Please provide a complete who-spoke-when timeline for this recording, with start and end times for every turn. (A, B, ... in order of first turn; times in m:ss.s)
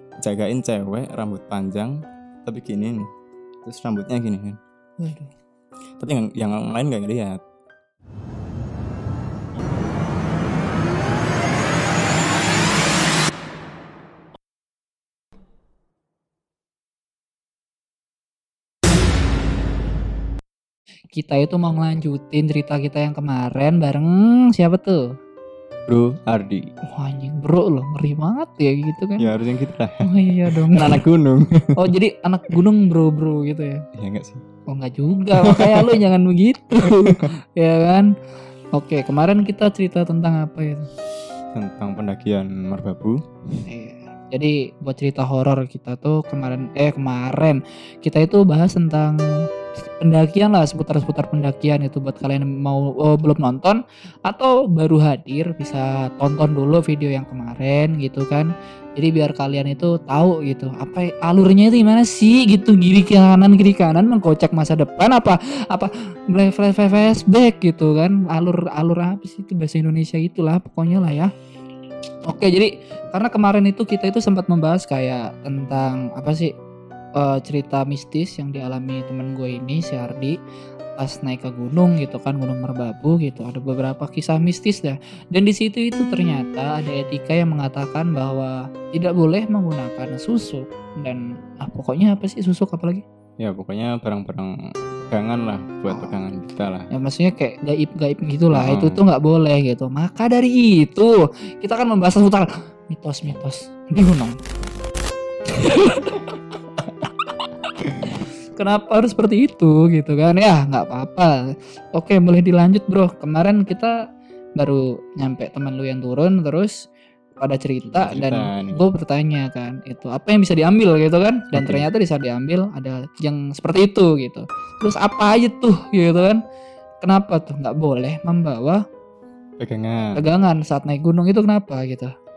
0:00.2-0:02.0 A
0:02.5-0:03.0 A
0:03.6-0:04.6 A
0:05.0-0:05.3 B
0:06.0-0:07.4 A
0:21.1-0:25.0 B
0:25.9-0:26.6 A
0:26.8-0:29.3 B
0:29.2-0:31.9 A
0:30.0-0:31.0 B
0:31.8-0:33.8 B
0:34.0-0:34.4 A
0:34.7-0:38.1 B
0:35.4-0:36.0 A
0:36.9-0:37.3 A
0:38.7-0:40.9 B
0:41.6-0:43.2 A
0:43.7-0:49.2 B
0:49.8-1:11.3 B
1:12.3-1:16.5 B
1:17.2-1:20.4 B
1:21.0-1:33.0 B
1:33.4-1:34.5 A
1:35.1-1:36.9 A
1:35.9-1:36.2 B
1:36.9-1:44.4 B
1:38.5-1:39.0 A
1:45.5-1:46.4 B
1:48.0-1:54.0 B
1:54.6-1:56.8 B
1:57.4-2:06.4 B
1:57.9-1:58.8 A
2:01.5-2:01.9 A
2:07.0-2:08.8 B
2:09.6-2:10.2 A
2:10.2-2:12.1 B